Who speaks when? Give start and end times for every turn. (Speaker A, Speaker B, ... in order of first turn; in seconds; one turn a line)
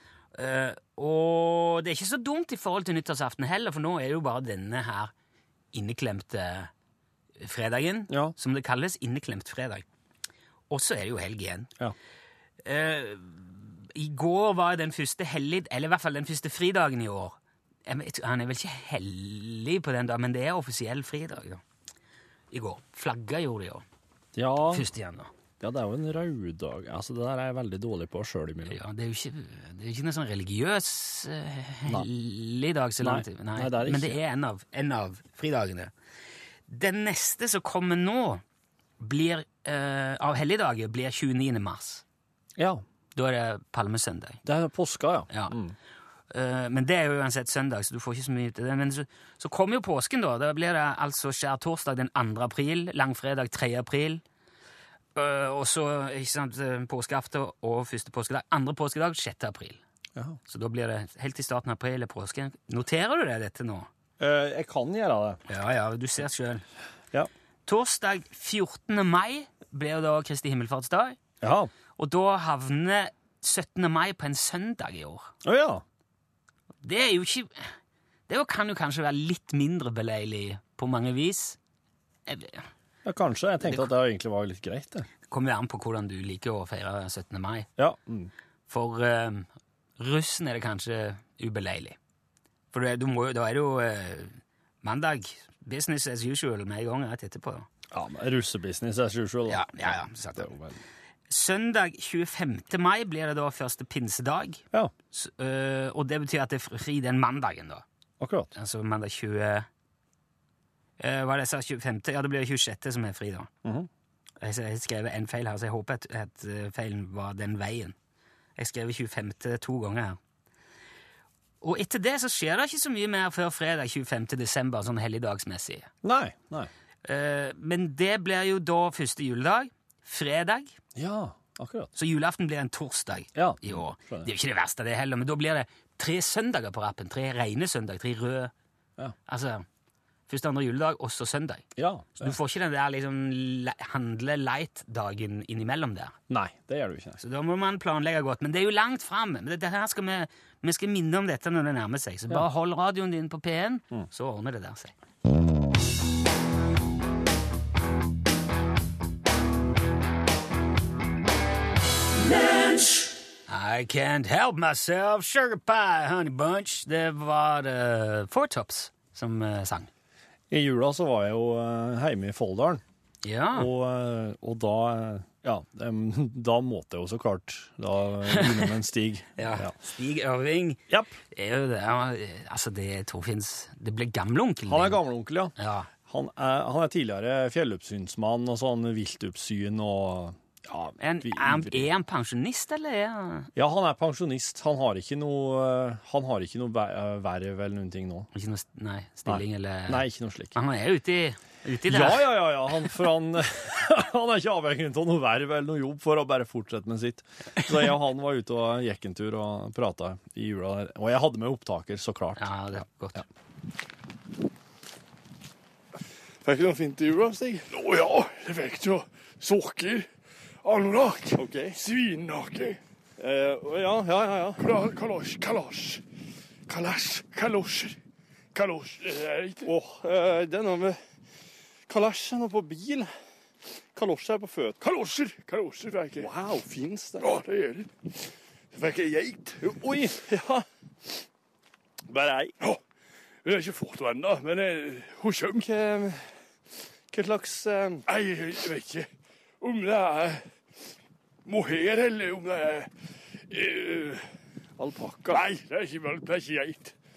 Speaker A: 0.3-5.1
Speaker A: 5.7-6.7
Speaker A: 7.4-9.8
Speaker B: 8.1-8.3
Speaker A: 10.7-11.7
Speaker A: 12.6-21.6
Speaker A: 22.5-23.8
Speaker B: 24.3-24.8
Speaker A: 24.7-25.3
Speaker B: 25.6-28.8
Speaker A: 28.7-35.9
Speaker B: 33.0-34.2
Speaker A: 36.7-38.4
Speaker A: 39.0-42.0
Speaker B: 42.6-42.8
Speaker A: 43.1-44.4
Speaker B: 44.4-45.7
Speaker A: 45.3-45.5
Speaker A: 46.3-54.2
Speaker A: 55.1-59.8
Speaker A: 60.5-63.9
Speaker B: 64.2-65.4
Speaker A: 65.5-66.6
Speaker A: 67.7-71.2
Speaker B: 71.4-71.7
Speaker A: 72.0-75.3
Speaker B: 75.4-75.8
Speaker A: 76.8-77.6
Speaker A: 78.3-81.6
Speaker A: 82.3-82.7
Speaker B: 83.0-85.1
Speaker A: 83.6-83.9
Speaker A: 85.3-87.7
Speaker B: 87.8-88.3
Speaker A: 88.7-89.5
Speaker A: 90.0-92.0
Speaker A: 92.7-97.7
Speaker B: 97.9-100.8
Speaker A: 99.5-100.5
Speaker A: 101.3-107.8
Speaker B: 108.2-108.5
Speaker A: 108.5-109.7
Speaker A: 111.0-113.5
Speaker A: 114.4-117.9
Speaker A: 118.6-120.2
Speaker A: 121.6-125.9
Speaker B: 126.0-126.7
Speaker A: 127.0-130.7
Speaker B: 130.9-131.9
Speaker A: 131.9-138.5
Speaker B: 133.3-134.3
Speaker A: 139.3-139.6
Speaker A: 140.3-141.6
Speaker B: 141.8-142.4
Speaker A: 142.2-146.2
Speaker B: 146.3-147.2
Speaker A: 147.2-154.9
Speaker A: 163.5-169.9
Speaker B: 170.5-172.8
Speaker A: 173.2-173.7
Speaker B: 173.5-179.8
Speaker A: 178.3-178.7
Speaker A: 179.4-180.8
Speaker A: 181.3-185.0
Speaker B: 184.7-185.5
Speaker A: 185.6-185.9
Speaker B: 186.1-191.9
Speaker A: 191.0-193.5
Speaker B: 193.5-198.3
Speaker A: 198.3-202.8
Speaker B: 199.2-200.5
Speaker B: 201.9-213.2
Speaker A: 212.4-213.2
Speaker B: 216.4-217.7
Speaker C: 217.7-220.1
Speaker C: 220.6-222.8
Speaker B: 221.3-221.8
Speaker B: 223.2-224.7
Speaker C: 224.6-226.0
Speaker C: 226.7-228.0
Speaker C: 228.5-229.7
Speaker B: 229.6-231.0
Speaker B: 231.9-233.1
Speaker B: 233.9-234.8
Speaker C: 234.8-236.3
Speaker B: 236.2-237.4
Speaker C: 237.2-237.9
Speaker C: 238.7-239.8
Speaker B: 239.6-240.6
Speaker B: 242.1-242.5
Speaker C: 243.4-245.7
Speaker B: 245.6-246.2
Speaker B: 247.1-248.1
Speaker C: 248.1-249.1
Speaker C: 249.6-250.4
Speaker C: 251.4-252.9
Speaker C: 253.5-254.2
Speaker B: 254.8-255.4
Speaker C: 255.3-256.9